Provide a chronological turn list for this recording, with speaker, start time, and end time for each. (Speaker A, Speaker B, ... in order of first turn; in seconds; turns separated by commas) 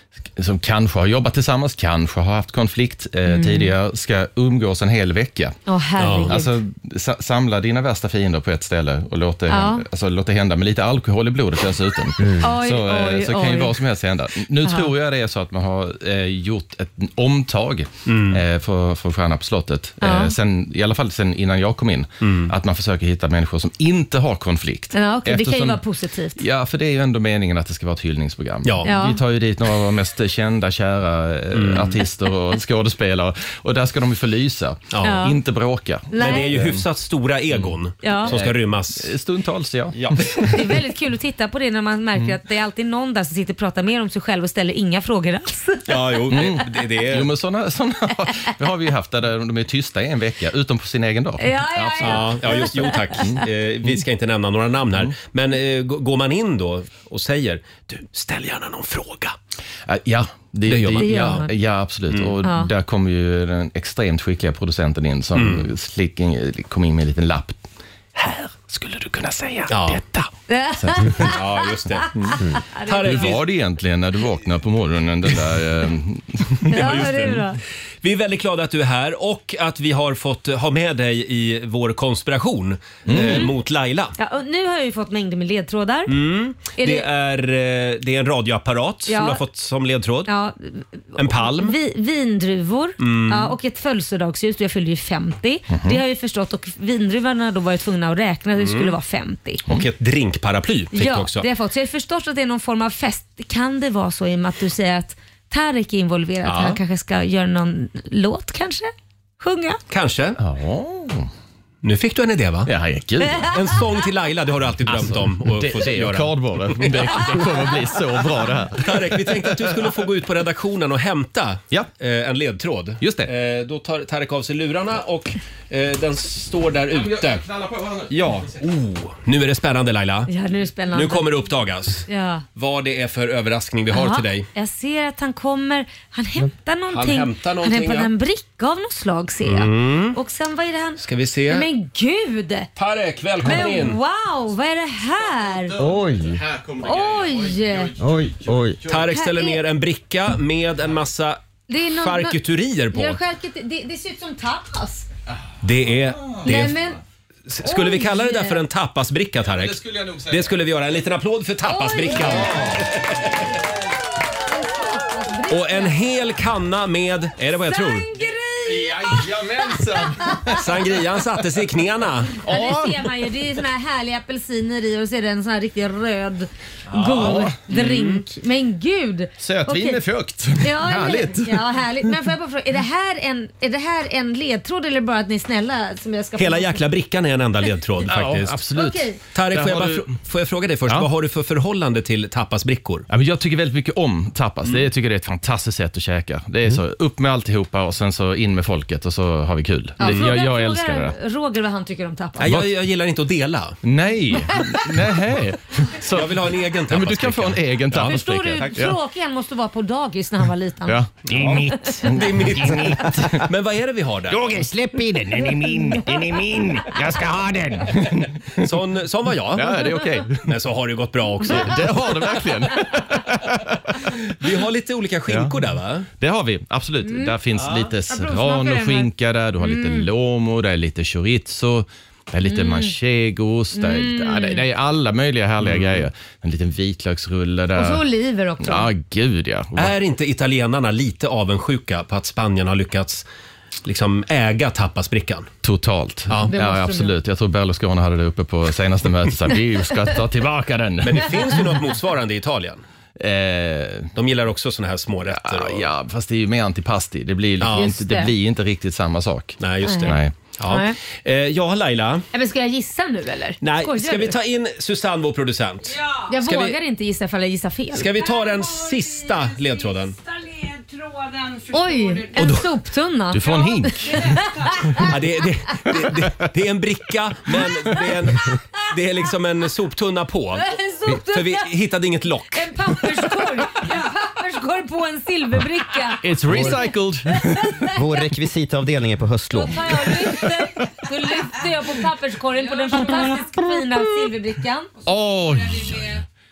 Speaker A: 0.3-5.6, Speaker B: 3.3-3.8, Speaker B: 5.7-6.5, Speaker C: 6.0-6.4, Speaker A: 6.3-25.8, Speaker B: 9.5-9.9, Speaker D: 12.2-12.5, Speaker B: 12.4-13.8, Speaker B: 14.6-14.9, Speaker C: 18.1-18.4, Speaker B: 20.0-20.4, Speaker C: 22.2-22.5, Speaker B: 24.9-26.4, Speaker A: 26.4-36.9, Speaker C: 28.6-28.9, Speaker B: 28.8-29.2, Speaker C: 31.5-32.0, Speaker C: 34.9-35.3, Speaker B: 35.0-35.4, Speaker B: 36.1-36.6, Speaker C: 36.2-39.1, Speaker A: 37.5-40.6, Speaker B: 38.0-38.4, Speaker C: 39.9-40.5, Speaker B: 40.4-46.6, Speaker C: 45.9-47.3, Speaker A: 46.3-54.0, Speaker B: 51.4-53.4, Speaker C: 52.0-59.4, Speaker A: 59.9-67.6, Speaker C: 60.7-61.5, Speaker B: 61.0-61.5, Speaker C: 62.1-62.4, Speaker B: 62.4-62.7, Speaker C: 65.3-65.7, Speaker A: 68.2-71.4, Speaker C: 69.7-70.0, Speaker B: 70.5-73.3, Speaker C: 71.2-72.3, Speaker C: 72.9-73.5, Speaker A: 73.0-76.9, Speaker C: 76.6-77.5, Speaker B: 76.7-77.6, Speaker C: 78.0-84.2, Speaker A: 83.1-83.5, Speaker B: 83.1-83.5, Speaker B: 84.2-86.1, Speaker C: 86.1-90.3, Speaker B: 86.8-87.1, Speaker B: 89.1-89.4, Speaker B: 90.3-99.6, Speaker C: 91.2-91.8, Speaker C: 93.0-93.5, Speaker A: 95.7-96.0, Speaker C: 98.6-99.0, Speaker C: 99.7-101.5, Speaker B: 100.9-109.8, Speaker A: 106.5-106.8, Speaker C: 109.9-110.4, Speaker A: 110.4-111.3, Speaker C: 111.8-112.7, Speaker A: 112.7-113.7, Speaker C: 113.4-117.5, Speaker A: 114.8-120.1, Speaker C: 118.8-127.5, Speaker A: 123.0-123.3, Speaker A: 126.9-128.6, Speaker C: 128.1-130.3, Speaker B: 130.3-131.4, Speaker C: 130.9-134.5, Speaker B: 132.1-132.4, Speaker B: 133.9-142.7, Speaker C: 136.9-138.1, Speaker C: 139.4-140.2, Speaker C: 141.0-141.7, Speaker C: 142.8-144.0, Speaker B: 143.4-145.8, Speaker A: 145.3-149.1, Speaker D: 145.8-146.4, Speaker B: 146.8-147.9, Speaker D: 148.0-148.8, Speaker C: 148.9-151.4, Speaker B: 149.0-149.6, Speaker B: 151.7-152.4, Speaker C: 151.9-153.2, Speaker B: 152.9-155.1, Speaker A: 155.4-156.7, Speaker C: 155.6-156.8, Speaker B: 156.4-157.0, Speaker C: 157.5-163.5, Speaker B: 157.6-158.6, Speaker A: 159.4-160.6, Speaker B: 161.7-162.8, Speaker A: 162.2-163.7, Speaker B: 164.5-166.1, Speaker C: 165.5-168.1, Speaker B: 167.7-170.6, Speaker A: 168.7-170.9, Speaker C: 170.6-172.4, Speaker A: 172.4-173.1, Speaker B: 172.4-180.0, Speaker A: 176.9-177.6, Speaker C: 177.7-178.2, Speaker A: 179.4-181.7, Speaker B: 180.6-186.8, Speaker C: 186.4-188.6, Speaker A: 188.0-190.1, Speaker B: 188.7-189.2, Speaker C: 189.3-193.1, Speaker A: 193.1-201.2, Speaker B: 200.0-202.5, Speaker C: 200.0-200.3, Speaker C: 202.4-203.8, Speaker A: 203.8-209.0, Speaker C: 206.1-208.2, Speaker B: 208.0-211.0, Speaker A: 210.9-213.5, Speaker C: 211.3-214.6, Speaker B: 211.7-212.0, Speaker A: 214.3-218.7, Speaker B: 215.4-216.1, Speaker C: 218.6-222.1, Speaker A: 219.4-220.6, Speaker A: 221.4-224.5, Speaker C: 224.4-226.1, Speaker A: 225.3-238.1, Speaker B: 227.0-230.1, Speaker B: 232.4-233.0, Speaker B: 233.7-234.7, Speaker C: 235.6-236.1, Speaker B: 237.7-238.9, Speaker A: 238.6-240.0, Speaker C: 239.8-243.2, Speaker C: 243.8-245.5, Speaker A: 245.6-251.7, Speaker B: 246.5-247.1, Speaker C: 251.0-252.8, Speaker A: 253.2-254.1, Speaker C: 254.2-255.9, Speaker A: 255.2-260.4, Speaker C: 257.6-258.0, Speaker B: 257.8-258.3, Speaker C: 259.6-262.3, Speaker B: 259.9-260.9, Speaker B: 262.3-264.4, Speaker C: 263.6-266.8, Speaker B: 266.2-268.3, Speaker C: 267.9-270.2, Speaker B: 271.7-275.1, Speaker C: 272.4-272.7, Speaker A: 273.3-275.0, Speaker C: 275.0-282.7, Speaker B: 280.6-281.7, Speaker B: 282.5-288.0, Speaker A: 286.2-287.9, Speaker D: 286.5-286.8, Speaker D: 288.0-289.9, Speaker B: 289.5-294.9, Speaker A: 290.1-290.7, Speaker A: 295.0-296.2